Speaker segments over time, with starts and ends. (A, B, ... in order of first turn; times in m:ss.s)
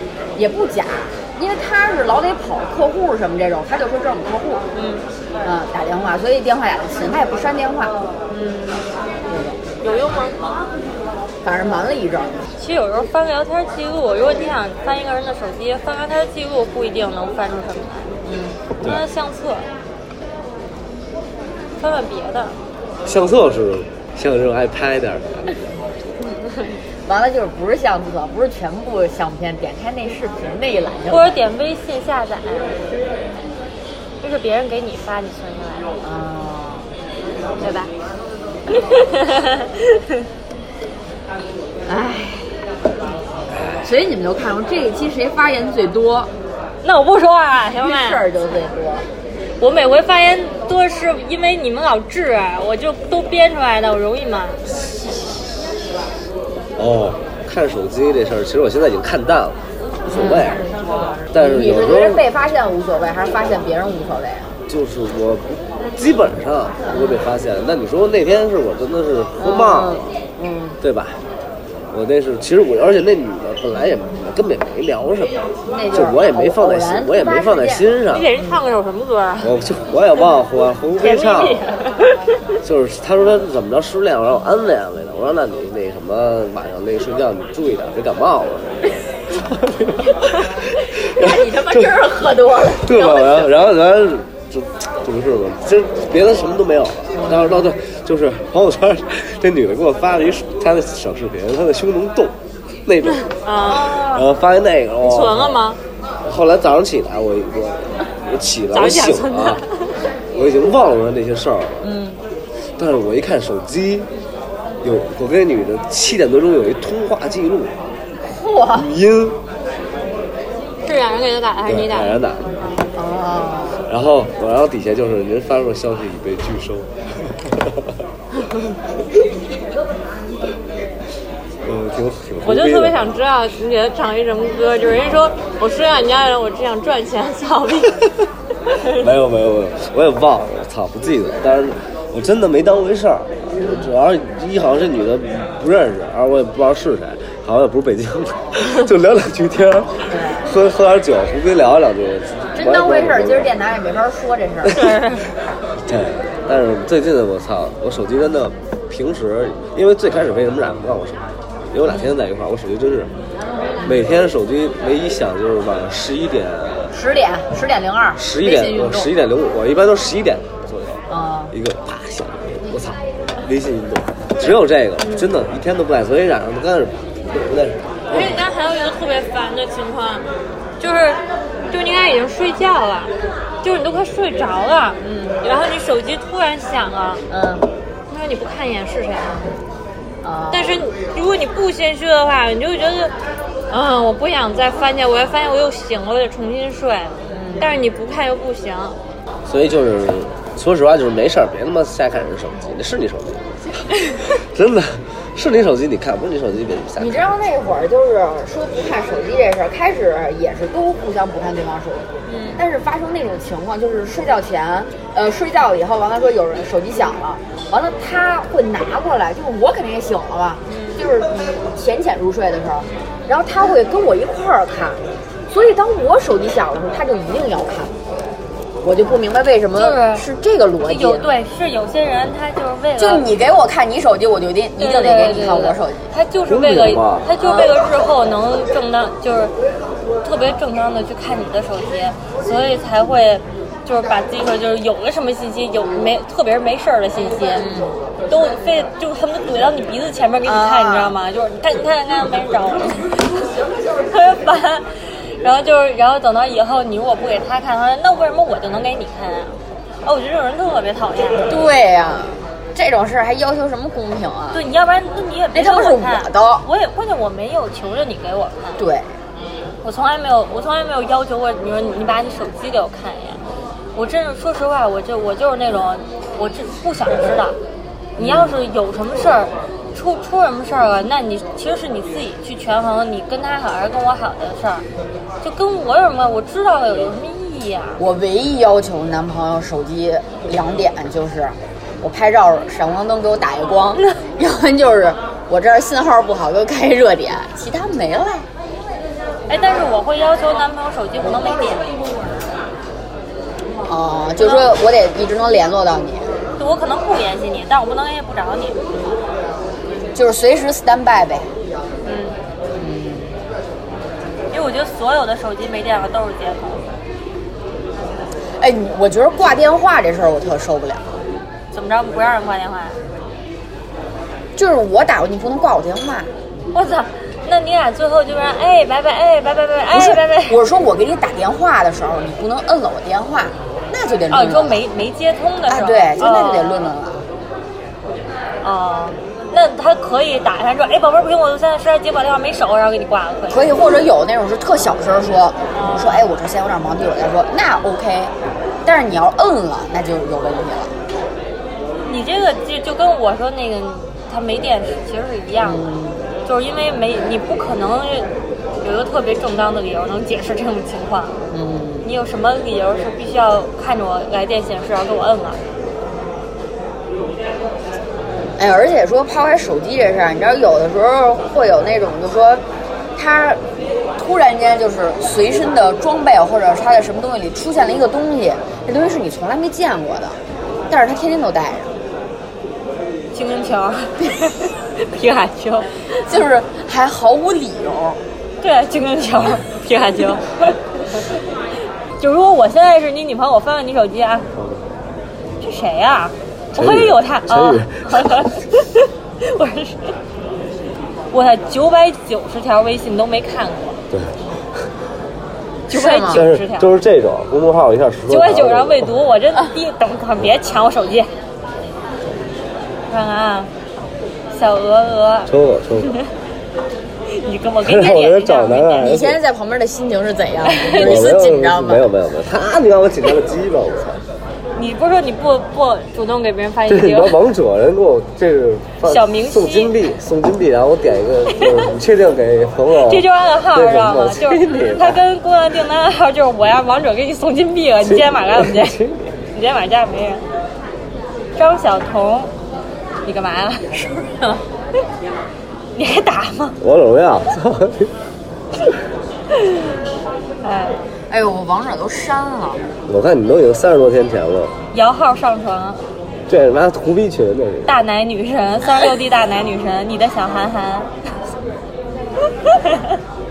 0:00.4-0:04.6 A
0:04.7-0:05.0 B
0:05.4-0:07.9 A
0:08.3-0:08.9 B
0:09.3-0:09.6 A
0:09.8-0:10.5 B
0:11.4-0:12.4 A
0:12.6-0:18.1 B
0:18.2-0:18.6 A
0:18.8-0:19.7 B
0:21.8-0:22.6 B
0:23.0-0:25.6 C
0:27.0-0:31.4 A
0:31.1-0:32.8 B
0:34.2-0:35.9 B
0:36.0-0:36.9 A
0:37.6-0:37.9 B
0:38.7-0:40.3 B
0:41.9-0:42.6 A
0:43.8-0:46.3 A
0:46.8-0:48.2 B
0:47.8-0:49.0 A
0:49.6-0:54.6 B
0:56.8-1:00.6 C
1:00.1-1:00.5 A
1:01.3-1:02.2 C
1:01.4-1:04.5 A
1:04.7-1:10.0 C
1:06.8-1:07.2 A
1:09.4-1:10.8 A
1:10.8-1:11.2 C
1:11.9-1:18.3 C
1:15.7-1:18.6 A
1:18.1-1:19.5 B
1:19.4-1:21.6 C
1:21.0-1:22.2 B
1:22.6-1:32.0 C
1:30.8-1:33.5 A
1:32.7-1:43.3 C
1:37.1-1:37.7 A
1:43.3-1:44.2 B
1:43.7-1:44.0 A
1:43.8-1:45.6 C
1:45.0-1:45.8 B
1:46.2-1:49.6 C
1:48.7-1:49.9 B
1:50.3-1:51.8 C
1:51.8-1:52.2 A
1:52.8-1:54.1 C
1:54.8-1:57.7 C
1:58.3-1:58.9 A
1:58.7-1:59.4 C
2:00.8-2:02.2 B
2:01.6-2:02.5 C
2:02.9-2:03.8 A
2:03.9-2:07.8 C
2:11.6-2:13.0 C
2:12.4-2:18.0 B
2:18.7-2:19.1 B
2:18.9-2:33.5 C
2:23.6-2:23.9 A
2:30.1-2:30.5 A
2:32.5-2:34.8 A
2:34.7-2:35.3 B
2:35.8-2:43.1 C
2:41.9-2:42.1 A
2:43.8-2:46.9 C
2:46.9-2:49.1 A
2:48.2-2:58.4 C
2:51.1-2:51.5 A
2:58.1-3:00.2 B
3:00.8-3:07.2 B
3:05.0-3:05.4 A
3:07.3-3:07.7 A
3:08.1-3:09.5 B
3:10.2-3:10.8 A
3:10.5-3:13.1 B
3:13.7-3:19.0 B
3:17.3-3:17.8 A
3:19.5-3:23.5 C
3:24.3-3:27.2 C
3:27.0-3:47.9 A
3:32.3-3:32.6 B
3:40.7-3:41.0 B
3:48.8-3:51.3 A
3:49.8-3:50.2 B
3:50.8-3:53.3 B
3:53.0-3:56.1 A
3:54.8-3:59.5 B
3:56.4-3:57.3 C
3:57.4-3:57.7 A
4:00.2-4:07.6 B
4:07.3-4:07.9 A
4:08.3-4:13.4 B
4:10.4-4:11.2 A
4:14.1-4:21.6 B
4:21.5-4:24.6 A
4:24.5-4:28.8 B
4:25.5-4:26.6 A
4:28.8-4:29.1 A
4:29.8-4:33.4 B
4:33.9-4:37.6 B
4:38.2-4:38.6 A
4:38.2-4:44.8 B
4:45.4-4:48.0 B
4:48.0-4:58.5 A
4:59.5-5:01.9 B
5:03.8-5:06.3 A
5:06.6-5:08.8 B
5:10.1-5:11.5 A
5:12.0-5:12.4 B
5:12.8-5:13.3 A
5:14.5-5:16.9 B
5:18.6-5:21.1 A
5:21.7-5:23.0 B
5:24.6-5:26.3 A
5:26.7-5:30.6 B
5:29.9-5:34.8 A
5:34.3-5:36.8 B
5:35.7-5:37.2 A
5:38.6-5:43.7 B
5:43.5-5:48.3 A
5:45.7-5:46.2 B
5:48.8-5:50.9 A
5:52.1-5:55.8 B
5:55.6-5:56.3 A
5:56.4-5:58.3 B
5:58.8-6:01.3 B
6:01.5-6:02.1 A
6:02.0-6:05.6 B
6:08.6-6:12.6 A
6:13.2-6:13.6 A
6:14.2-6:20.4 A
6:20.9-6:21.9 A
6:23.3-6:25.9 B
6:26.2-6:28.2 A
6:28.6-6:31.3 B
6:32.2-6:34.5 B
6:34.5-6:34.8 C
6:35.6-6:40.2 B
6:36.8-6:38.4 C
6:41.3-6:44.0 B
6:44.1-6:44.4 C
6:45.9-6:46.4 A
6:45.9-6:46.9 B
6:46.3-6:49.1 C
6:48.3-6:51.3 B
6:53.1-6:53.7 B
6:54.5-6:56.3 B
6:55.5-6:56.1 C
6:57.3-6:59.1 B
6:57.8-6:59.4 C
6:59.0-7:02.0 A
7:00.6-7:01.2 B
7:01.0-7:04.2 C
7:04.8-7:07.4 B
7:06.9-7:15.2 C
7:09.0-7:09.9 B
7:11.5-7:11.9 B
7:12.9-7:19.0 B
7:18.0-7:19.2 C
7:19.5-7:20.4 B
7:21.6-7:22.5 B
7:23.2-7:23.9 B
7:23.9-7:24.6 A
7:25.9-7:26.8 B
7:26.8-7:28.1 C
7:30.6-7:31.0 B
7:31.3-7:32.8 A
7:33.1-7:34.7 C
7:34.9-7:36.0 B
7:36.5-7:37.9 C
7:37.8-7:41.1 B